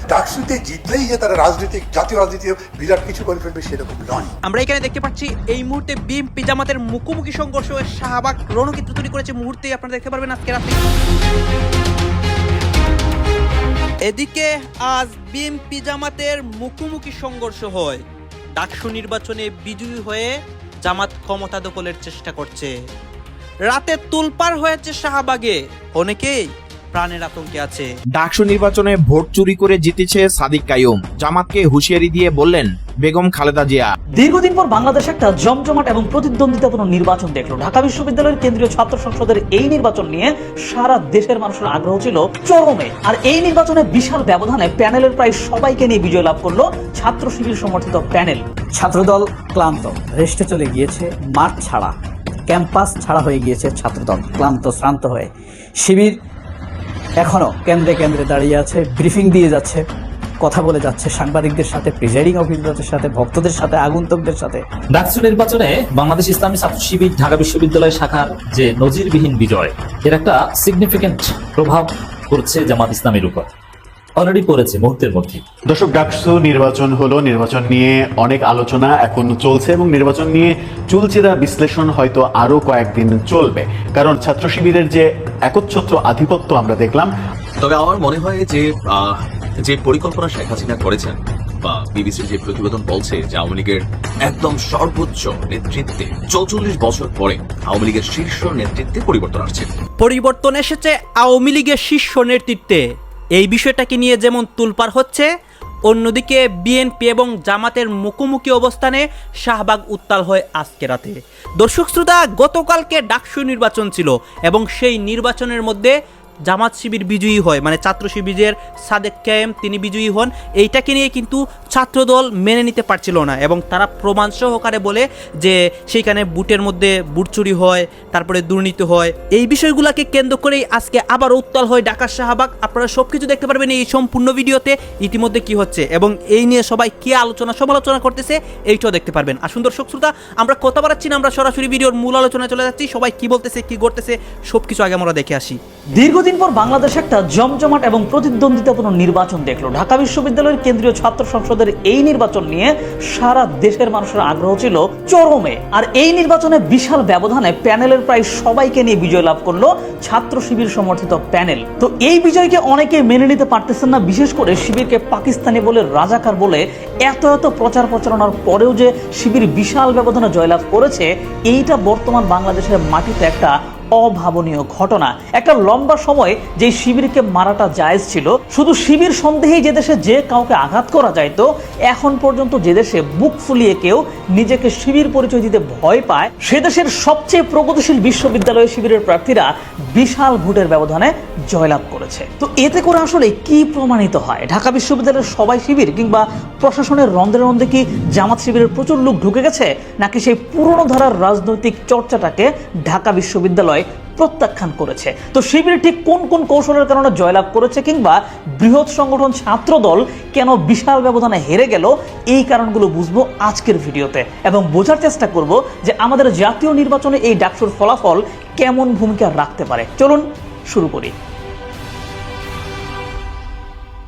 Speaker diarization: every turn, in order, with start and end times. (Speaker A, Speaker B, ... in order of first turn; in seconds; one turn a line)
Speaker A: 0.1-4.3
Speaker B: 4.5-10.8
Speaker B: 14.0-18.0
Speaker B: 18.6-22.7
Speaker B: 23.7-27.9
Speaker C: 28.1-33.9
Speaker D: 34.1-48.4
Speaker E: 48.7-51.9
Speaker E: 52.5-56.2
Speaker E: 57.2-59.8
Speaker E: 60.4-64.6
Speaker F: 64.9-73.5
Speaker F: 74.2-75.4
Speaker G: 75.7-87.1
Speaker H: 87.6-99.7
Speaker B: 100.0-102.8
Speaker B: 103.4-105.3
Speaker B: 105.9-115.9
Speaker B: 116.5-145.6
Speaker D: 145.9-221.1